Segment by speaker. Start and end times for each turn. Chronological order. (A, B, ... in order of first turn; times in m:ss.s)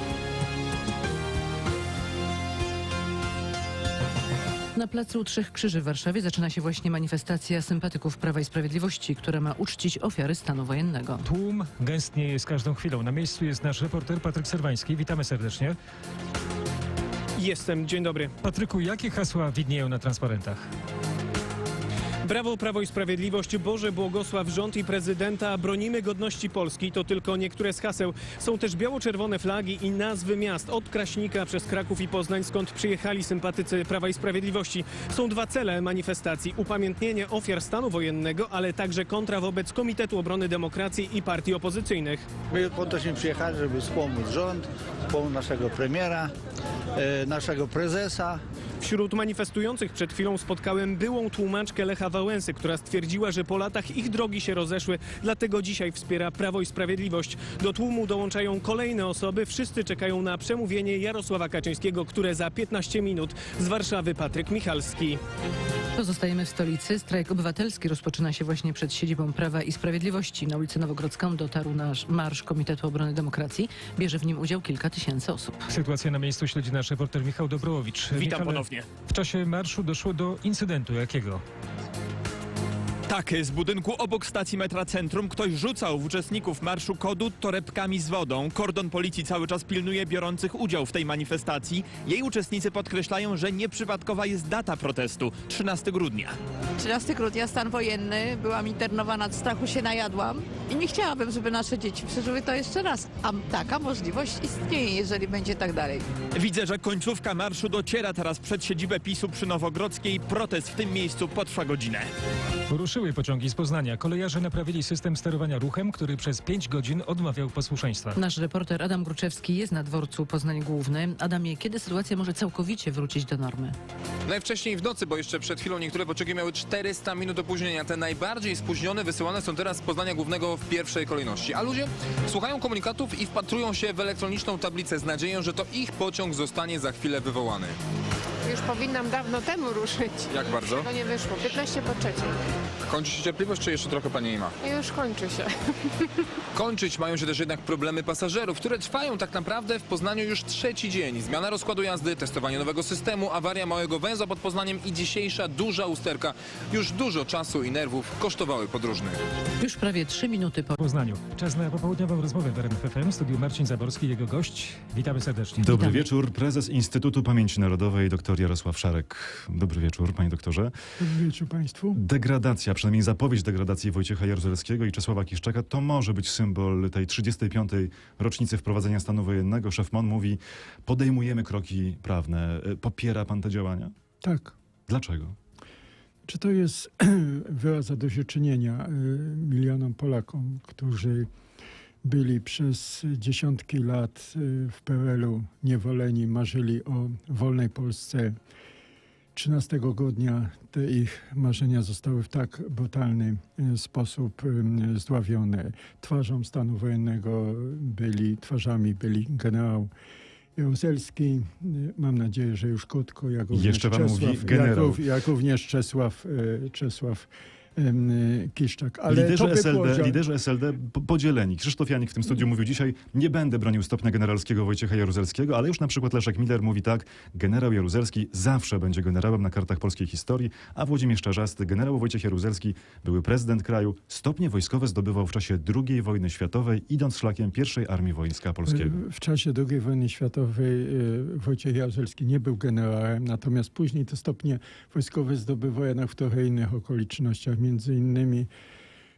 0:04.8-0:11.2 A
0:11.2-0:15.8 B
0:17.4-0:18.3 C
0:18.4-0:20.7 B
0:22.2-0:42.3 C
0:42.5-0:46.3 D
0:47.0-0:48.4 D
0:48.8-1:05.2 C
1:06.0-1:15.7 A
1:15.7-1:21.4 B
1:18.1-1:18.9 C
1:23.1-1:36.4 E
1:36.8-1:46.0 F
1:46.3-1:52.1 E
1:52.7-1:58.2 B
1:58.2-2:03.8 A
2:04.3-2:17.7 G
2:18.4-2:22.3 H
2:20.3-2:20.9 G
2:22.8-2:24.5 G
2:24.6-2:26.2 H
2:26.5-2:39.2 G
2:39.6-2:40.8 A
2:40.8-2:45.9 B
2:45.6-2:50.7 I
2:45.7-2:46.0 A
2:51.0-2:52.0 J
2:51.9-3:03.9 I
3:04.2-3:04.5 J
3:04.9-3:05.4 I
3:06.3-3:11.3 J
3:12.0-3:18.4 J
3:19.3-3:29.9 J
3:30.6-3:40.2 J
3:33.5-3:35.0 I
3:39.1-3:59.0 I
3:58.7-4:08.5 J